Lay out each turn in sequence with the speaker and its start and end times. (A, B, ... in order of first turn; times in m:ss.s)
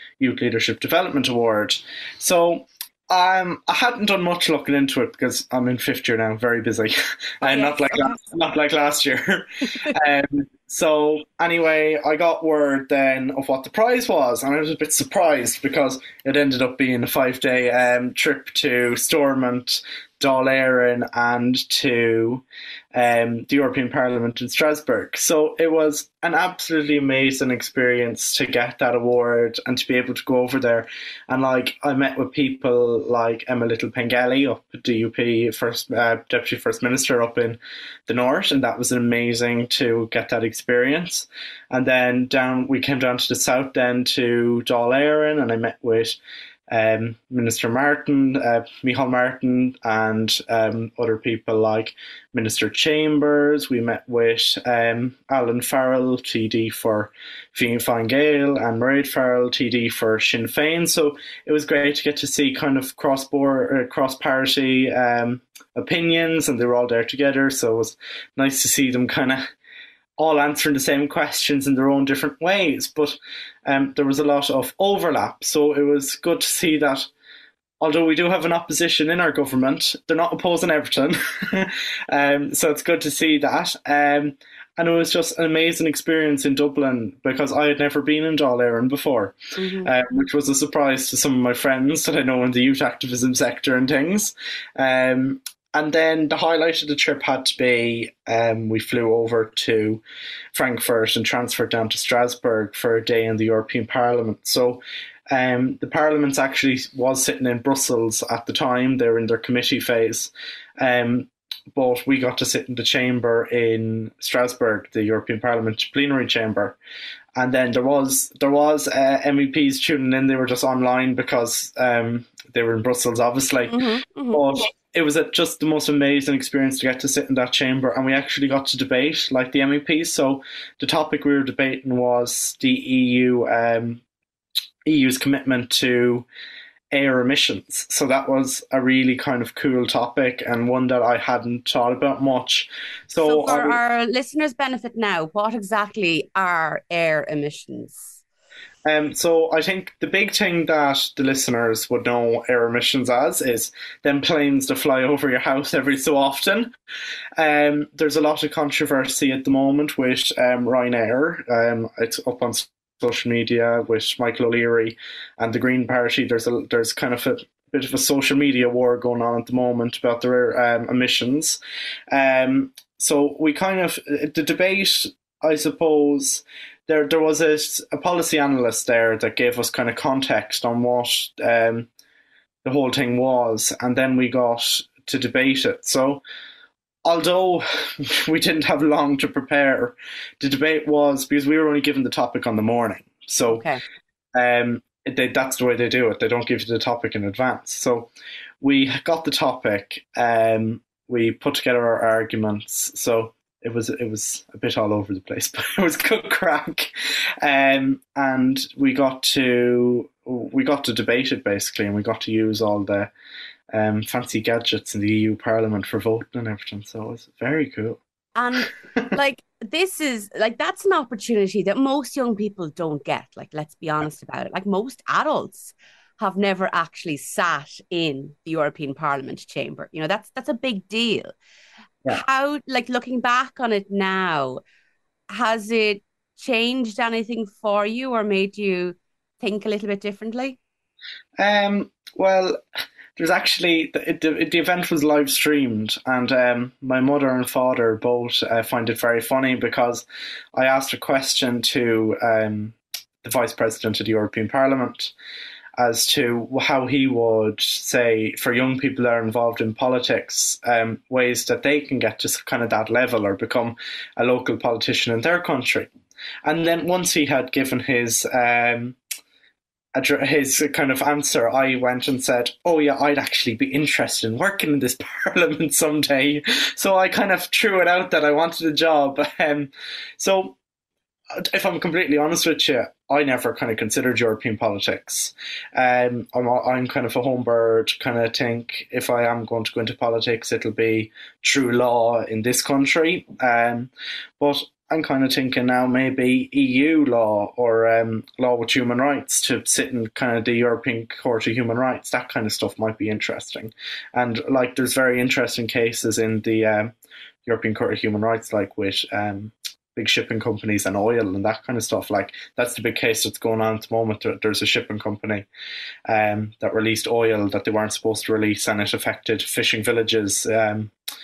0:00.2-0:46.2 A
0:07.4-0:08.0 B
0:46.7-1:09.5 A
1:10.2-1:17.1 A
1:17.8-1:40.0 A
1:29.6-1:29.9 B
1:40.5-1:56.8 A
1:57.4-2:14.0 A
2:03.7-2:04.5 B
2:14.9-2:16.3 A
2:16.9-2:23.8 A
2:23.2-2:28.1 B
2:28.8-2:36.7 A
2:37.4-2:51.6 A
2:52.1-3:01.9 A
3:02.6-3:06.2 A
3:07.0-3:13.7 A
3:13.5-3:13.8 B
3:14.4-3:18.1 A
3:18.6-3:26.9 A
3:27.4-3:33.1 A
3:33.7-3:38.0 A
3:38.4-3:51.3 B
3:52.1-3:54.6 B
3:55.3-4:00.6 B
4:01.4-4:02.6 A
4:03.2-4:15.1 A
4:15.8-4:25.9 A
4:26.4-4:29.0 A
4:30.0-4:40.6 A
4:41.5-5:06.9 A
5:07.4-5:15.5 A
5:16.1-5:20.9 A